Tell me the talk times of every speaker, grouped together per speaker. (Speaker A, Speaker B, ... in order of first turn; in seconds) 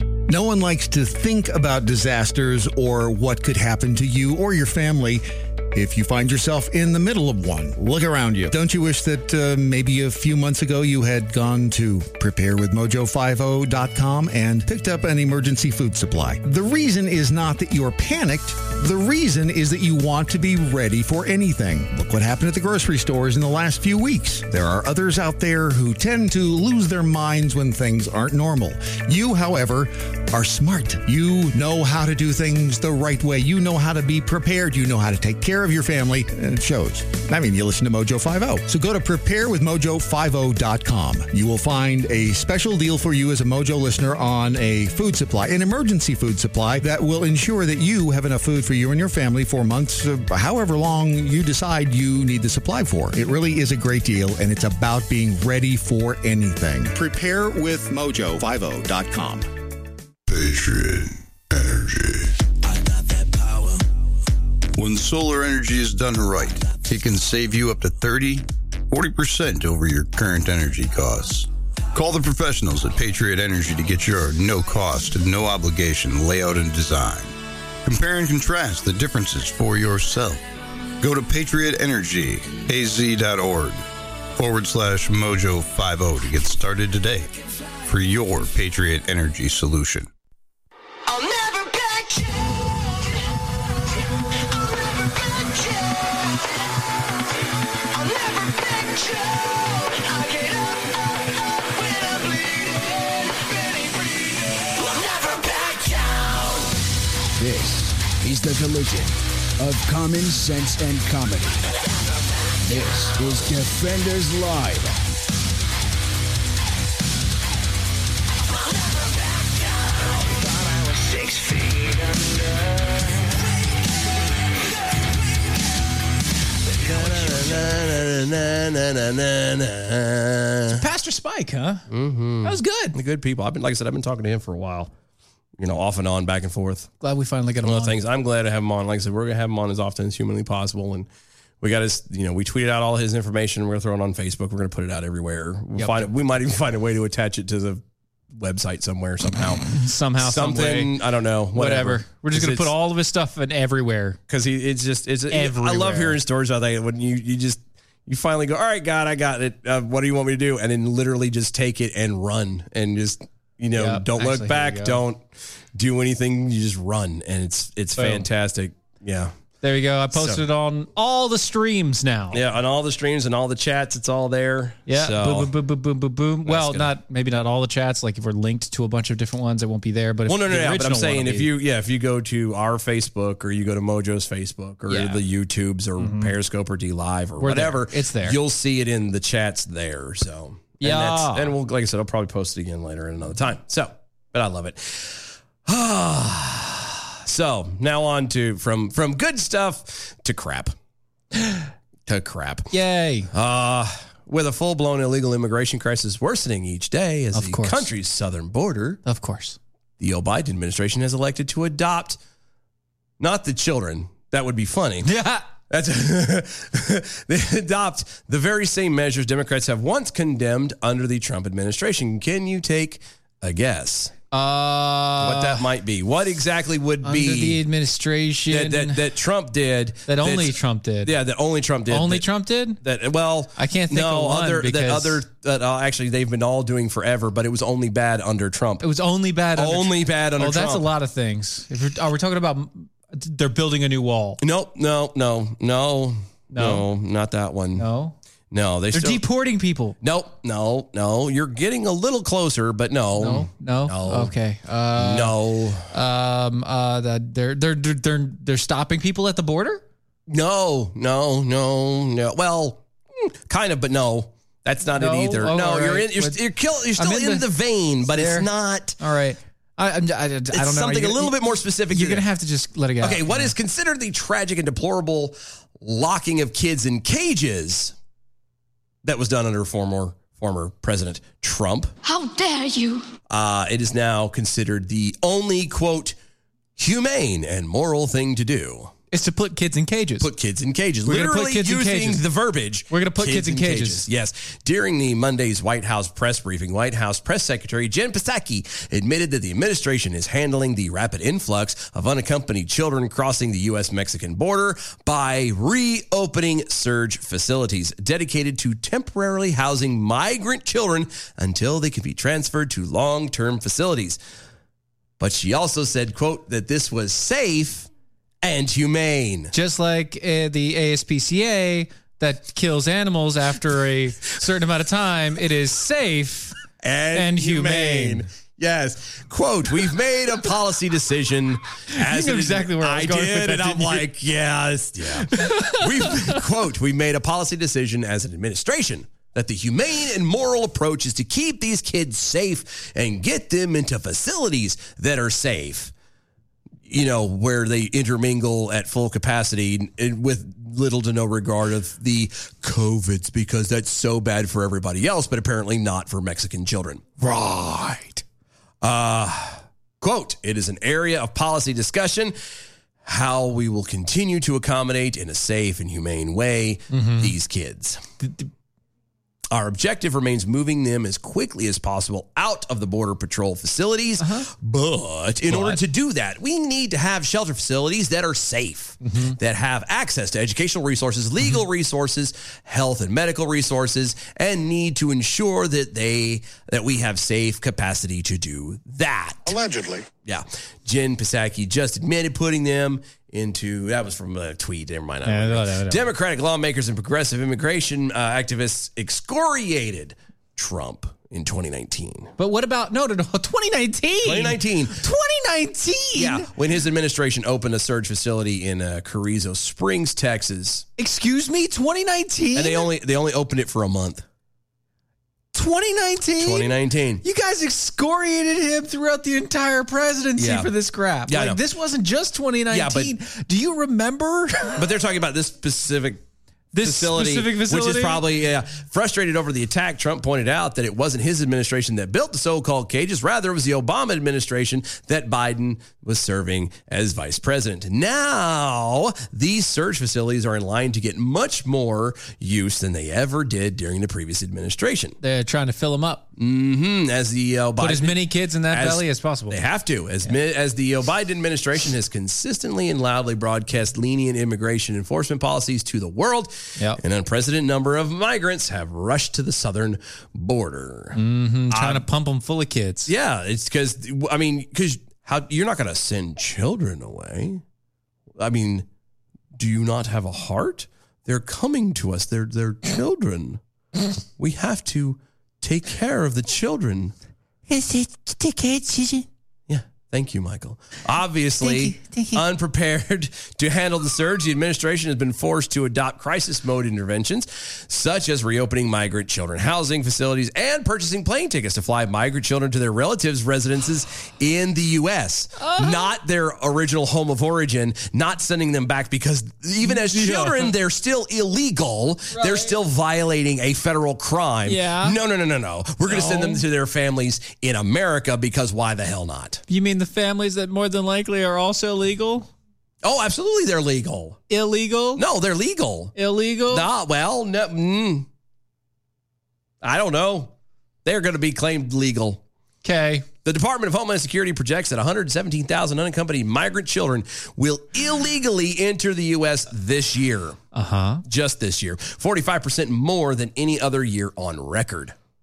Speaker A: 0.3-59.5
Speaker B: 60.3-62.3, 64.8-77.3, 77.8-80.4, 81.0-87.3, 87.9-90.1
Speaker C: 91.1-97.2, 97.9-106.7, 118.7-123.5, 282.0-283.1
Speaker D: 107.4-111.6, 112.6-115.0
Speaker E: 126.8-130.8, 131.9-134.9, 135.6-136.9, 137.6-141.1, 141.6-149.6, 150.2-152.7, 154.3-169.3, 170.1-170.4, 172.3-175.5, 176.4-176.9, 180.3-200.7, 202.1-202.7, 203.3-209.0, 210.0-212.2, 213.2-215.1, 215.7-224.1, 225.2-227.6, 228.5-232.3, 232.8-238.8, 239.6-240.9, 244.4-247.9, 248.5-249.2, 250.0-254.3, 254.9-255.9, 260.3-269.0, 270.5-272.3, 273.0-277.9, 279.0-281.9, 283.3-286.2, 286.8-288.9, 290.2-314.2, 315.2-317.9, 318.4-319.5, 326.8-345.9, 346.9-357.1, 358.8-362.3, 363.0-368.0, 369.5-389.7, 390.2-402.3, 404.2-405.0, 406.1-410.9, 412.6-414.2, 416.4-417.2, 420.4-420.7, 421.3-421.6, 422.7-423.1, 424.8-426.2, 426.8-445.2, 446.4-461.2, 461.7-462.1, 463.1-467.6, 468.4-468.9, 469.6-473.6, 474.4-477.1, 479.7-509.6, 513.0-514.4, 515.1-516.1, 516.7-518.3, 519.8-520.5, 521.0-522.4, 523.5-530.6, 531.3-535.1
Speaker F: 130.7-131.9, 132.4-133.0, 137.0-138.0, 145.8-146.1, 149.7-150.9, 151.5-154.2, 155.3-156.2, 163.8-165.0, 168.0-168.3, 169.6-172.4, 174.9-181.5, 184.9-185.2, 186.0-186.3, 187.4-188.4, 190.8-191.5, 202.7-203.3, 207.3-207.9, 209.1-209.6, 215.0-215.5, 224.3-225.7, 227.0-229.0, 230.1-231.1, 231.9-232.8, 233.6-235.2, 238.8-244.4, 246.5-246.9, 247.8-248.2, 248.9-250.0, 253.2-255.3, 255.9-259.8, 264.9-266.4, 266.9-267.5, 268.0-273.5, 289.1-290.3, 291.1-292.2, 292.9-294.1, 319.5-326.6, 327.1-328.3, 331.9-334.1, 335.2-336.4, 357.2-358.2, 366.9-367.3, 368.2-368.5, 374.2-374.5, 375.5-375.8, 379.0-379.4, 395.3-396.1, 402.4-406.5, 411.0-412.9, 415.5-424.8, 426.7-428.3, 445.2-446.3, 447.8-449.6, 461.1-463.1, 477.7-479.3, 481.6-482.4, 495.6-496.1, 499.8-500.7, 502.3-502.8, 504.6-505.2, 506.1-506.6, 509.7-512.5, 514.5-515.2, 516.1-516.9, 522.8-523.3, 530.7-531.2